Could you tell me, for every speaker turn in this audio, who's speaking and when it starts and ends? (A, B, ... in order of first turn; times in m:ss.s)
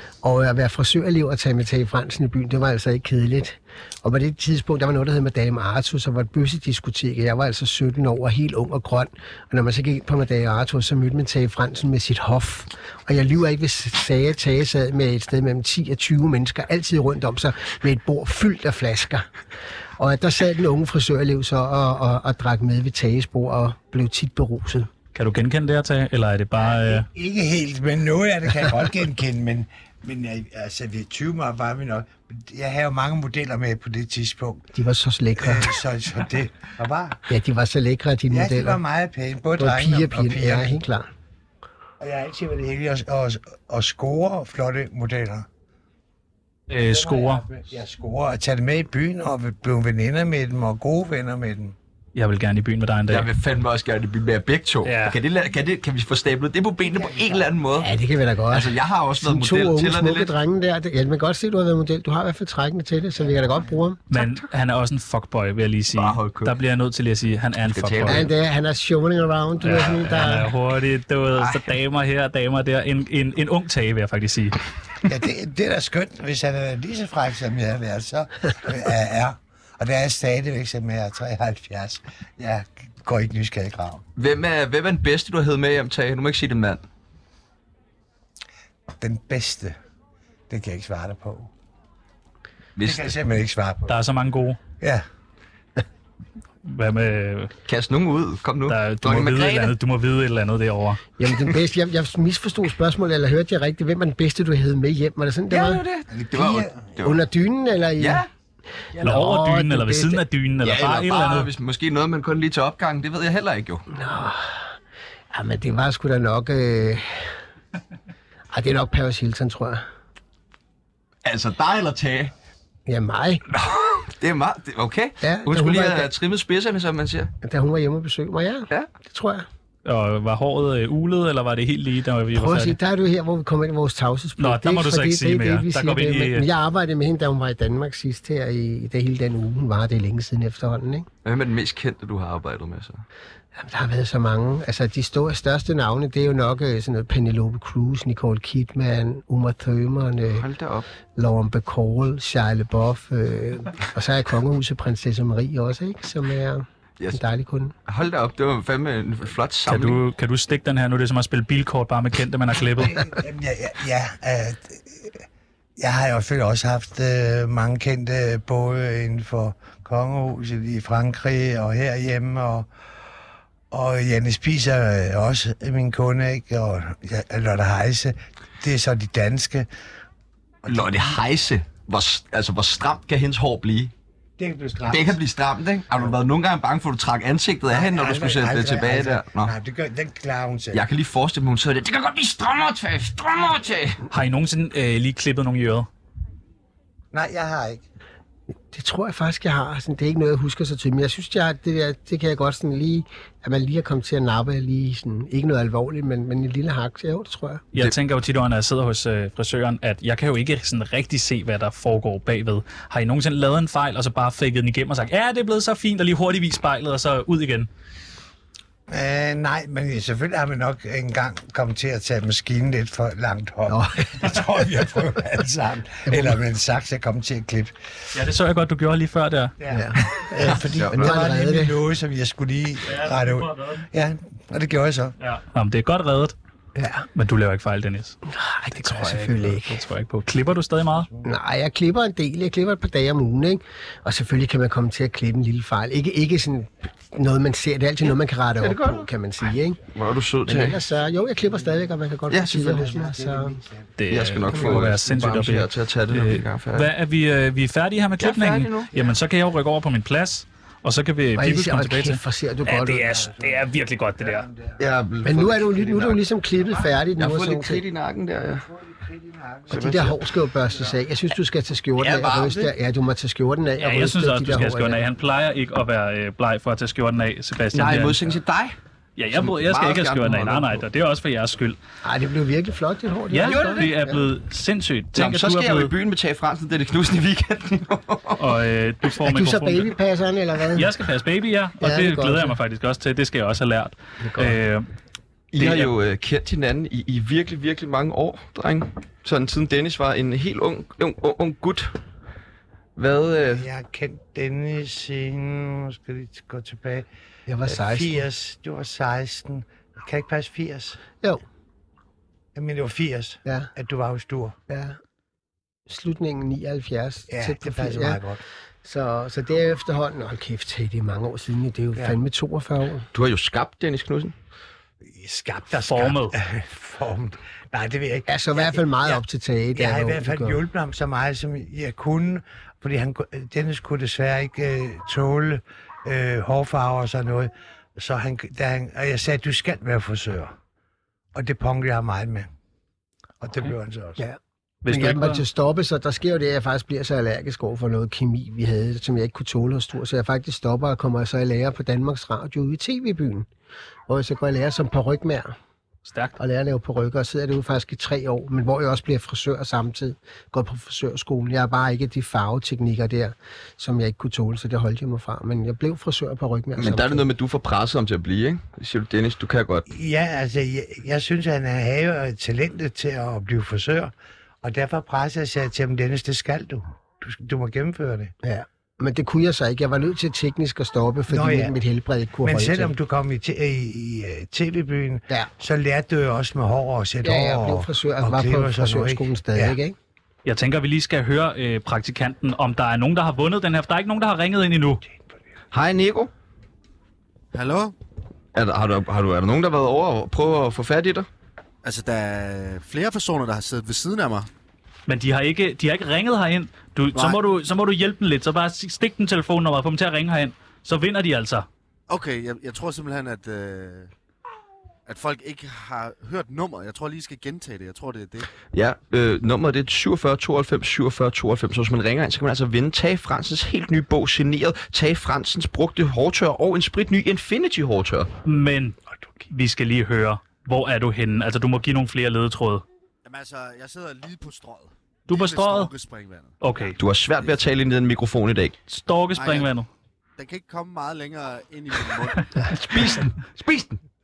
0:00.2-0:19.3 A
0:20.0-0:24.9 A
0:25.1-0:27.1 B
0:26.6-0:34.7 C
0:34.7-0:35.8 A
0:35.4-0:37.2 C
0:37.3-0:38.8 A
0:38.3-0:40.8 C
0:39.6-0:41.1 A
0:42.0-0:45.5 C
0:46.7-0:47.4 B
0:46.8-0:51.8 C
0:52.2-0:53.3 B
0:53.1-0:57.9 D
0:54.8-0:55.2 B
0:56.8-0:57.5 C
0:57.8-1:04.0 A
0:58.5-1:00.3 D
1:04.1-1:08.3 B
1:05.9-1:06.6 D
1:07.7-1:08.3 D
1:08.0-1:10.5 A
1:09.6-1:14.6 B
1:11.4-1:11.7 D
1:15.1-1:24.0 C
1:24.2-1:26.8 D
1:29.0-1:29.8 C
1:30.5-1:31.5 C
1:32.8-1:33.2 D
1:32.8-1:34.0 C
1:33.9-1:34.6 B
1:36.6-1:37.5 B
1:37.7-1:39.8 D
1:38.7-1:41.0 B
1:41.2-1:45.8 A
1:45.5-1:47.2 D
1:46.1-1:46.9 C
1:47.0-1:48.2 A
1:48.0-1:48.3 D
1:49.0-1:50.2 A
1:49.0-1:51.5 B
1:50.6-1:53.9 D
1:53.9-1:54.8 A
1:55.3-1:57.4 A
1:58.5-1:59.8 A
2:01.2-2:02.3 D
2:02.9-2:03.4 A
2:03.5-2:07.3 D
2:05.2-2:06.1 A
2:07.4-2:09.5 A
2:09.8-2:12.8 B
2:12.3-2:21.1 A
2:14.4-2:16.5 B
2:21.2-2:23.0 D
2:23.6-2:30.5 A
2:30.4-2:30.9 D
2:31.2-2:37.7 A
2:37.9-2:40.0 D
2:39.7-2:43.0 B
2:42.8-2:45.2 C
2:45.8-2:52.7 C
2:53.7-2:59.7 C
3:00.6-3:01.2 C
3:00.7-3:03.9 D
3:04.4-3:05.2 C
3:04.9-3:09.5 D
3:07.7-3:10.8 C
3:10.7-3:14.0 D
3:14.1-3:15.9 B
3:17.1-3:17.8 C
3:18.7-3:27.6 A
3:27.7-3:37.7 B
3:38.9-3:47.8 C
3:43.7-3:44.4 A
3:46.1-3:46.4 A
3:48.1-3:49.6 B
3:49.6-3:55.1 C
3:49.7-3:51.8 A
3:50.6-3:51.2 D
3:52.8-3:53.9 B
3:55.2-3:56.4 B
3:56.8-3:57.1 A
3:57.2-3:58.2 B
3:58.2-3:59.8 A
3:58.8-4:01.1 B
4:01.2-4:09.8 A
4:08.6-4:09.1 D
4:09.9-4:10.8 D
4:10.5-4:13.6 A
4:12.3-4:12.9 D
4:12.7-4:13.9 C
4:14.0-4:24.5 B
4:14.1-4:16.9 D
4:18.2-4:18.9 D
4:21.4-4:23.3 A
4:23.1-4:24.8 C
4:24.8-4:26.2 D
4:25.2-4:27.8 A
4:27.2-4:28.6 D
4:28.6-4:30.1 C
4:29.7-4:30.2 D
4:29.7-4:35.0 A
4:30.7-4:31.0 C
4:32.0-4:32.7 D
4:33.8-4:38.2 B
4:37.7-4:38.8 D
4:39.2-4:41.8 B
4:39.3-4:40.8 D
4:42.0-4:44.2 A
4:43.3-4:45.9 B
4:43.4-4:44.0 D
4:45.2-4:48.5 D
4:48.4-4:49.9 B
4:49.2-4:50.9 A
4:50.8-4:54.9 B
4:51.8-4:52.6 A
4:54.2-4:54.6 A
4:55.5-5:02.0 D
4:55.6-4:55.9 B
5:03.0-5:03.7 D
5:03.6-5:07.1 C
5:07.5-5:08.2 A
5:07.6-5:11.0 C
5:12.6-5:14.6 C
5:14.7-5:15.0 A
5:15.9-5:18.2 A
5:17.3-5:18.4 C
5:18.8-5:23.1 A
5:23.1-5:24.3 D
5:25.0-5:29.2 C
5:25.8-5:26.4 B
5:28.3-5:30.6 A
5:29.8-5:40.5 C
5:41.3-5:42.5 C
5:43.4-5:44.2 C
5:44.2-5:53.5 A
5:44.8-5:45.4 B
5:54.1-5:55.5 A
5:56.1-5:56.4 B
5:56.4-6:07.2 A
6:06.8-6:09.9 D
6:09.9-6:18.3 C
6:18.4-6:22.9 A
6:21.3-6:21.8 C
6:22.4-6:29.8 C
6:27.2-6:30.0 A
6:30.4-6:35.0 B
6:35.7-6:36.3 D
6:37.5-6:38.0 E
6:38.6-6:41.3 D
6:41.8-6:44.5 E
6:45.1-6:51.7 B
6:52.1-6:54.1 E
6:55.1-6:58.5 E
6:58.7-7:08.3 D
7:08.4-7:09.0 B
7:09.5-7:12.8 B
7:13.2-7:16.6 E
7:15.3-7:15.9 B
7:16.6-7:17.0 B
7:17.0-7:18.8 D
7:18.9-7:19.9 B
7:19.4-7:19.7 E
7:20.4-7:22.5 E
7:22.7-7:24.0 D